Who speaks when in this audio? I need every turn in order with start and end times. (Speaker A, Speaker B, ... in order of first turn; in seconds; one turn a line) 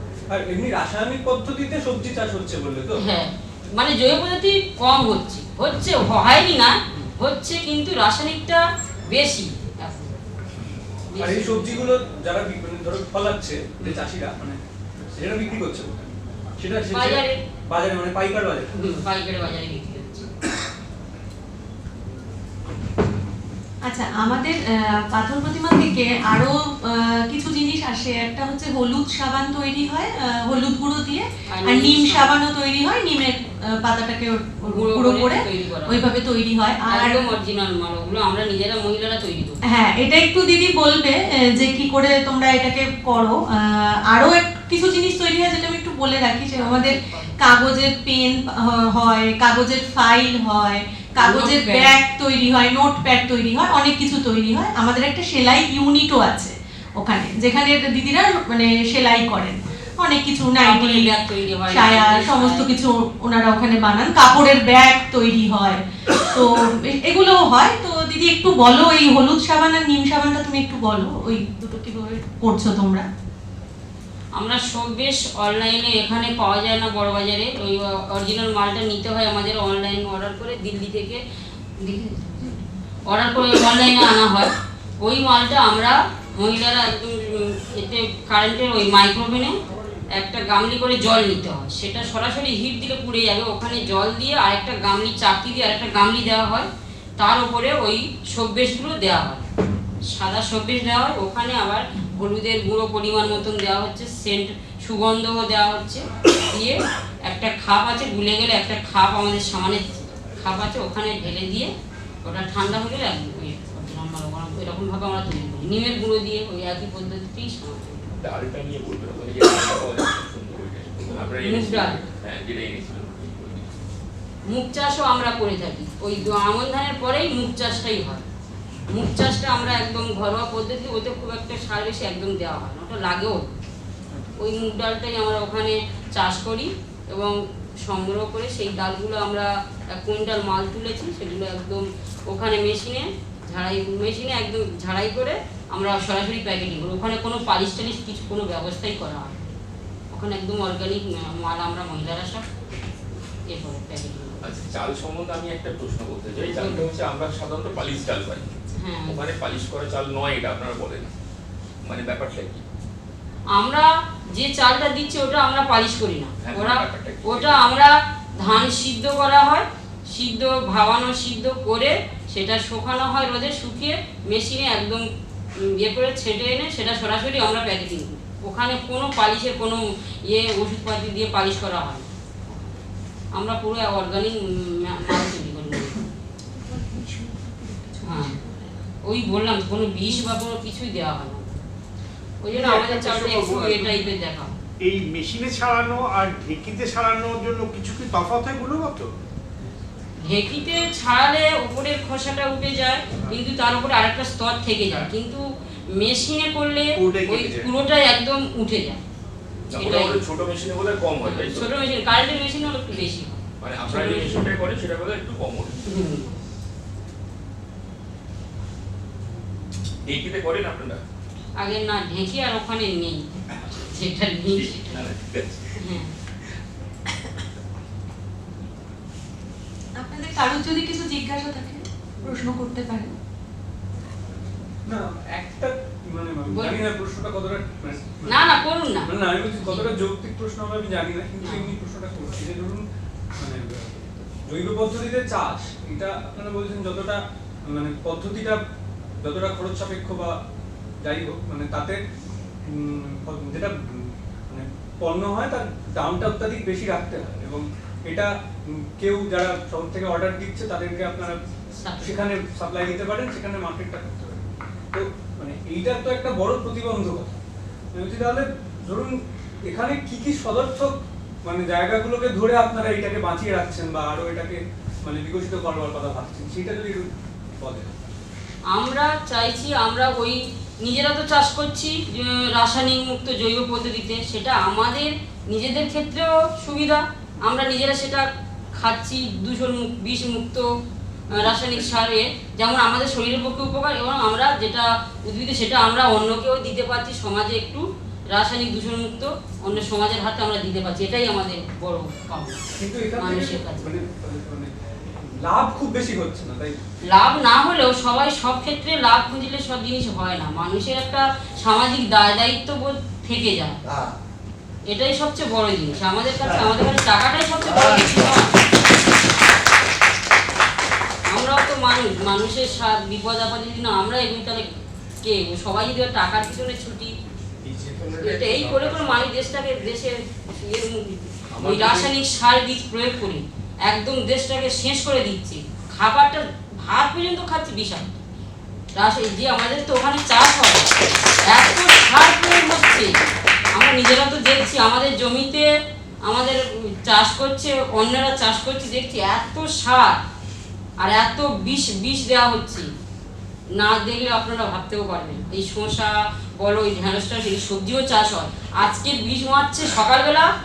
Speaker A: 0.3-3.0
Speaker B: 3.0-10.1
Speaker B: 11.1-11.9
Speaker A: 11.2-16.1
Speaker A: 16.6-18.7
Speaker B: 16.9-17.4
Speaker B: 18.8-20.3
Speaker C: 23.9-37.3
Speaker B: 31.5-32.3
Speaker B: 34.7-36.0
Speaker B: 36.9-39.6
Speaker C: 39.7-61.1
Speaker B: 46.6-47.4
Speaker B: 51.2-51.9
Speaker B: 60.6-62.7
Speaker C: 61.7-73.1
Speaker B: 74.4-81.2
Speaker B: 81.8-84.5
Speaker B: 85.0-89.5
Speaker B: 90.2-99.5
Speaker B: 100.1-111.7
Speaker B: 112.2-118.1
Speaker D: 118.2-123.7
Speaker B: 121.4-122.0
Speaker B: 124.5-128.2
Speaker B: 128.9-133.6
Speaker B: 134.4-149.4
Speaker B: 150.1-152.4
Speaker B: 153.5-154.4
Speaker D: 154.4-161.1
Speaker B: 156.4-156.9
Speaker B: 158.8-159.3
Speaker D: 161.8-162.6
Speaker B: 163.6-175.0
Speaker D: 166.4-167.6
Speaker B: 175.6-182.6
Speaker B: 183.3-186.1
Speaker B: 188.0-188.4
Speaker B: 189.1-191.6
Speaker B: 192.4-194.6
Speaker E: 192.5-194.0
Speaker E: 194.8-199.1
Speaker B: 200.3-205.4
Speaker B: 206.0-209.0
Speaker E: 206.9-207.7
Speaker D: 209.7-211.7
Speaker B: 209.7-210.2
Speaker B: 211.2-214.6
Speaker D: 213.6-215.8
Speaker B: 215.9-216.3
Speaker D: 220.0-221.0
Speaker B: 221.6-225.0
Speaker D: 224.6-226.0
Speaker B: 225.8-226.1
Speaker C: 230.0-233.2
Speaker A: 234.9-242.8
Speaker B: 236.5-236.8
Speaker B: 238.3-239.9
Speaker B: 241.4-241.7
Speaker A: 243.4-248.6
Speaker A: 249.2-250.4
Speaker A: 251.0-252.0
Speaker A: 252.7-261.4
Speaker B: 261.8-262.2
Speaker A: 262.0-267.4
Speaker A: 267.9-270.9
Speaker A: 271.4-278.0
Speaker B: 278.7-290.6
Speaker B: 291.3-302.6
Speaker A: 302.8-306.8
Speaker B: 303.2-303.9
Speaker B: 307.1-313.8
Speaker B: 314.9-318.6
Speaker B: 321.3-324.7
Speaker B: 325.2-327.1
Speaker E: 327.6-329.3
Speaker B: 328.2-338.2
Speaker D: 331.5-332.1
Speaker B: 339.0-343.1
Speaker B: 343.7-345.7
Speaker B: 346.3-350.2
Speaker B: 351.0-352.9
Speaker B: 353.8-360.5